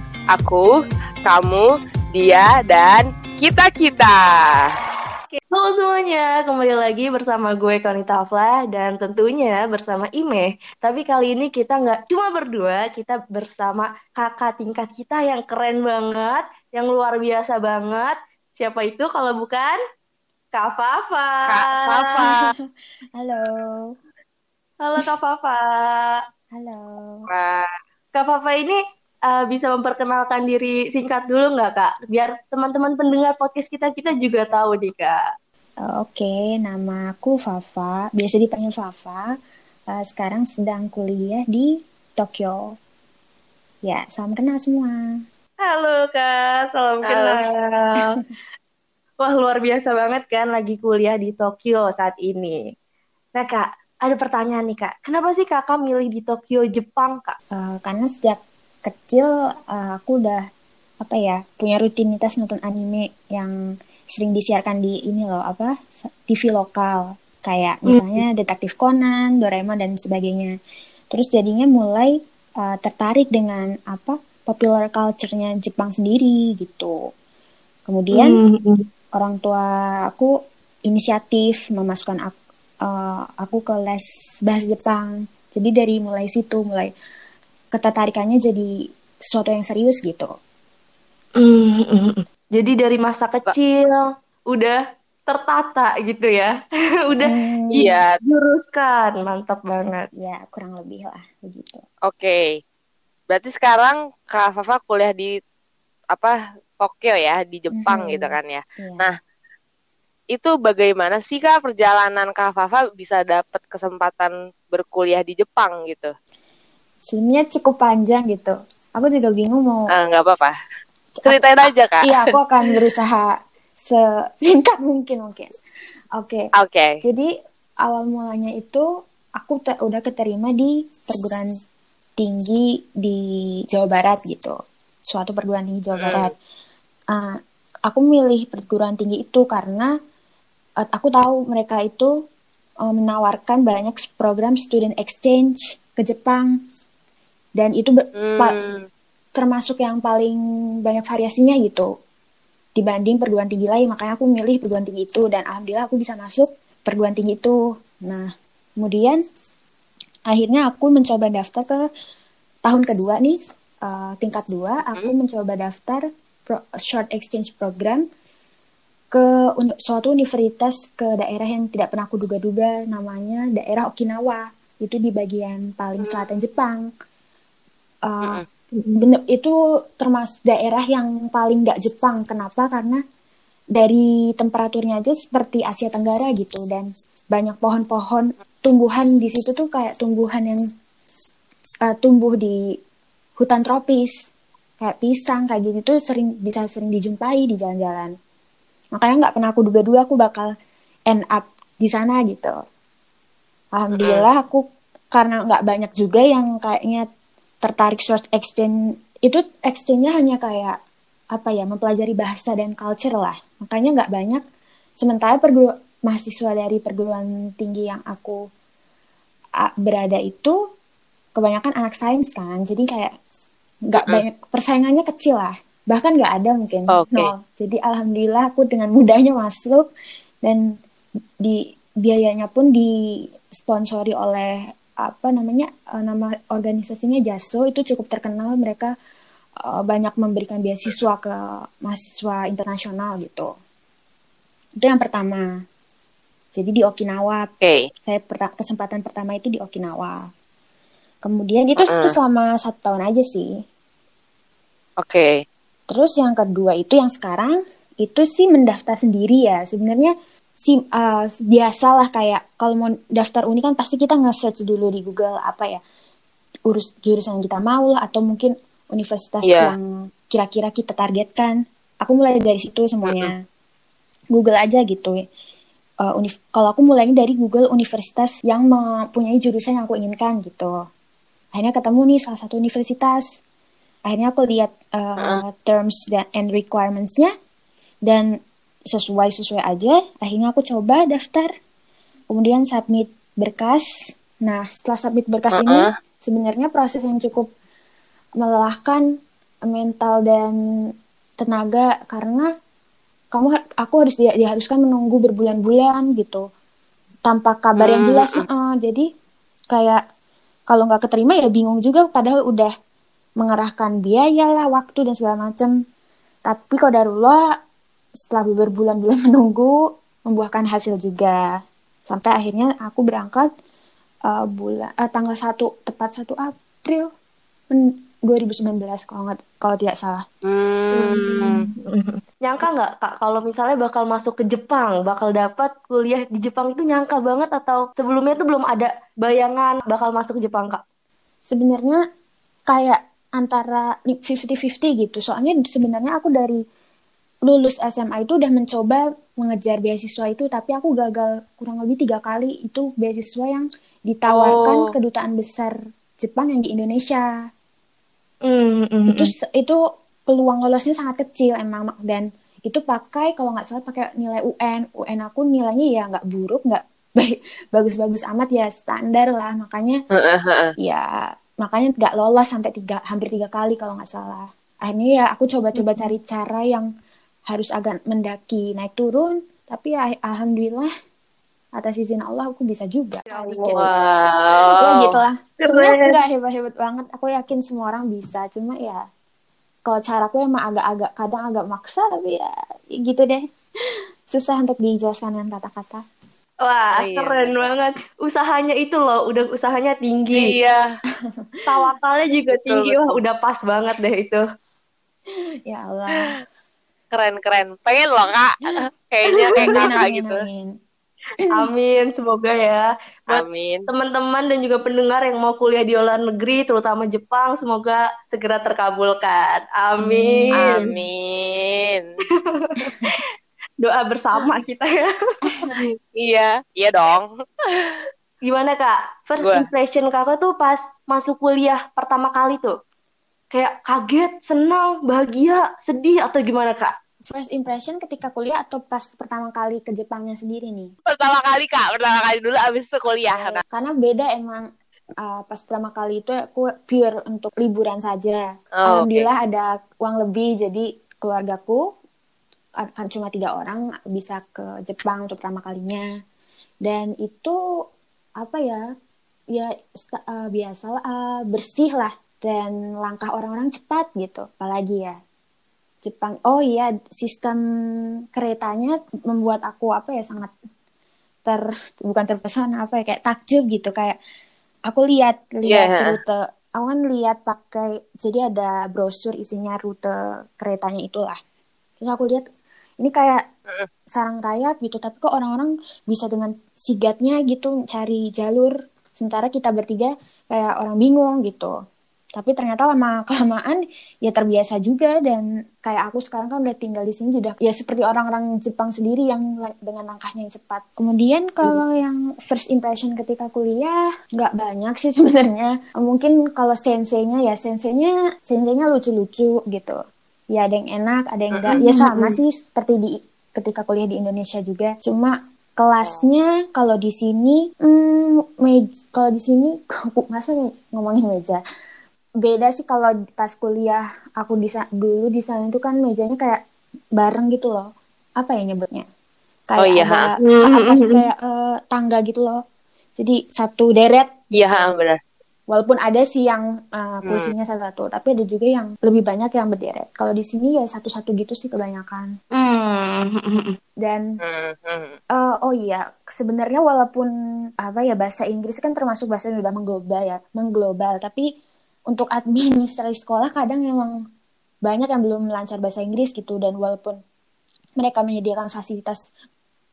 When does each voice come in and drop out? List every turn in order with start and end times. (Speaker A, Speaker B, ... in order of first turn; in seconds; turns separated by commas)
Speaker A: 0.3-0.7, Speaker A: 1.2-4.7, Speaker B: 5.3-19.8, Speaker B: 20.5-22.0, Speaker A: 21.5-22.5, Speaker C: 23.2-23.9, Speaker B: 24.8-26.2, Speaker C: 26.5-27.3, Speaker A: 27.3-27.7, Speaker B: 28.1-35.2, Speaker C: 35.8-39.3, Speaker C: 39.9-42.6, Speaker C: 43.9-45.0, Speaker B: 45.6-48.2, Speaker A: 47.1-47.4, Speaker B: 49.2-52.6, Speaker B: 53.4-57.4, Speaker C: 57.5-60.5, Speaker C: 61.0-63.6, Speaker C: 64.1-70.5, Speaker B: 67.9-68.2, Speaker C: 71.1-77.0, Speaker C: 77.9-78.4, Speaker B: 78.2-78.8, Speaker C: 79.2-80.3, Speaker C: 80.9-86.9, Speaker C: 87.7-88.8, Speaker C: 89.3-90.3, Speaker B: 91.4-96.6, Speaker B: 97.1-97.3, Speaker C: 97.2-98.0, Speaker A: 97.7-98.2, Speaker B: 98.2-100.1, Speaker C: 100.1-101.8, Speaker A: 102.1-102.6, Speaker A: 103.3-105.3, Speaker A: 106.1-109.2, Speaker C: 107.8-109.1, Speaker A: 110.3-116.1, Speaker C: 117.1-119.9, Speaker A: 119.9-120.5, Speaker C: 121.2-125.5, Speaker A: 121.3-122.1, Speaker C: 126.2-126.5, Speaker A: 126.6-127.0, Speaker C: 127.0-127.3, Speaker C: 127.8-128.8, Speaker C: 129.4-131.5, Speaker C: 132.2-134.6, Speaker C: 135.1-136.3, Speaker A: 136.0-136.3, Speaker C: 137.1-137.4, Speaker C: 137.9-139.9, Speaker C: 140.8-142.1, Speaker C: 142.8-146.5, Speaker C: 147.6-148.6, Speaker A: 148.2-148.8, Speaker C: 149.4-151.9, Speaker C: 152.8-159.2, Speaker C: 160.3-161.9, Speaker C: 162.7-168.1, Speaker C: 169.1-176.8, Speaker A: 176.0-176.3, Speaker C: 178.1-178.4, Speaker B: 178.7-179.0, Speaker C: 179.0-183.0, Speaker C: 183.8-190.6, Speaker C: 191.9-192.6, Speaker C: 193.4-198.2, Speaker C: 199.0-200.5, Speaker C: 201.1-202.5, Speaker C: 203.8-207.1, Speaker A: 204.0-204.2, Speaker C: 207.6-208.8, Speaker C: 209.3-210.8, Speaker C: 211.3-214.4, Speaker C: 215.0-218.4, Speaker C: 219.6-220.6, Speaker C: 221.4-223.1, Speaker C: 223.9-229.9, Speaker A: 226.9-227.3, Speaker C: 231.4-232.9, Speaker C: 233.5-238.9, Speaker C: 239.7-243.5, Speaker C: 244.8-245.5, Speaker C: 246.6-247.5, Speaker C: 248.0-250.3, Speaker C: 251.2-253.6, Speaker A: 251.8-252.2, Speaker A: 255.0-255.3, Speaker C: 255.9-260.1, Speaker C: 260.7-265.8, Speaker C: 266.7-273.4, Speaker A: 269.4-269.7, Speaker A: 273.1-273.3, Speaker C: 274.3-275.2, Speaker C: 276.0-280.7, Speaker C: 281.5-283.4, Speaker C: 284.1-287.3, Speaker C: 288.9-291.5, Speaker C: 292.3-297.5, Speaker A: 295.5-295.9, Speaker C: 298.4-299.1, Speaker C: 299.7-300.6, Speaker C: 301.4-302.5, Speaker C: 303.3-306.4, Speaker C: 307.3-309.1, Speaker A: 307.8-308.4, Speaker C: 309.7-310.0, Speaker C: 310.7-312.7, Speaker C: 313.4-315.7, Speaker C: 316.5-317.5, Speaker C: 318.2-321.4, Speaker C: 322.1-323.5, Speaker C: 324.3-327.1, Speaker C: 327.7-330.2, Speaker A: 330.4-331.6, Speaker B: 330.9-340.8, Speaker C: 341.5-342.0, Speaker C: 342.7-346.6, Speaker C: 347.5-357.3, Speaker A: 354.3-354.9, Speaker B: 358.5-359.3, Speaker C: 359.1-370.0, Speaker A: 370.1-370.7, Speaker C: 370.8-371.1, Speaker C: 371.6-376.9, Speaker B: 375.8-376.1, Speaker C: 377.5-380.9, Speaker C: 381.8-384.0, Speaker B: 383.3-383.9, Speaker A: 383.8-385.2, Speaker C: 384.8-389.0, Speaker B: 385.6-386.2, Speaker C: 389.9-393.4, Speaker C: 394.3-396.0, Speaker B: 396.6-400.6, Speaker A: 396.9-397.7, Speaker A: 400.4-400.8, Speaker B: 401.7-404.4, Speaker A: 402.5-403.2, Speaker C: 405.3-406.4, Speaker A: 407.1-410.4, Speaker C: 409.6-410.7, Speaker B: 411.5-420.9, Speaker A: 413.3-413.9, Speaker C: 420.0-421.0, Speaker A: 420.6-422.1, Speaker B: 422.5-423.2, Speaker C: 422.8-423.1, Speaker B: 423.8-425.1, Speaker C: 425.5-425.7, Speaker A: 425.7-428.1, Speaker B: 428.5-432.7, Speaker A: 429.4-429.7, Speaker B: 433.5-436.9, Speaker C: 437.3-440.9, Speaker A: 441.1-443.6, Speaker C: 443.3-444.7, Speaker C: 445.2-451.8, Speaker A: 448.8-449.3, Speaker C: 452.8-456.1, Speaker C: 456.9-457.6, Speaker C: 458.4-458.8, Speaker C: 459.5-465.2, Speaker C: 466.0-467.6, Speaker C: 468.4-470.5, Speaker C: 471.4-474.2, Speaker C: 474.9-481.4, Speaker A: 475.7-476.2, Speaker C: 482.0-482.4, Speaker C: 483.0-483.4, Speaker C: 484.1-491.7, Speaker C: 492.4-510.0, Speaker C: 510.5-521.6, Speaker B: 511.7-512.4, Speaker A: 516.0-516.3, Speaker C: 522.4-526.6, Speaker C: 527.2-529.1, Speaker C: 529.7-532.6, Speaker A: 529.8-530.3, Speaker B: 530.4-531.3, Speaker C: 533.2-534.3, Speaker A: 534.5-535.2, Speaker C: 535.7-542.3, Speaker A: 537.3-537.5, Speaker B: 542.6-543.8, Speaker C: 544.0-544.3, Speaker A: 544.4-545.2, Speaker C: 545.4-547.3, Speaker C: 547.8-551.5, Speaker C: 552.1-554.1, Speaker C: 554.9-557.2, Speaker C: 558.0-559.3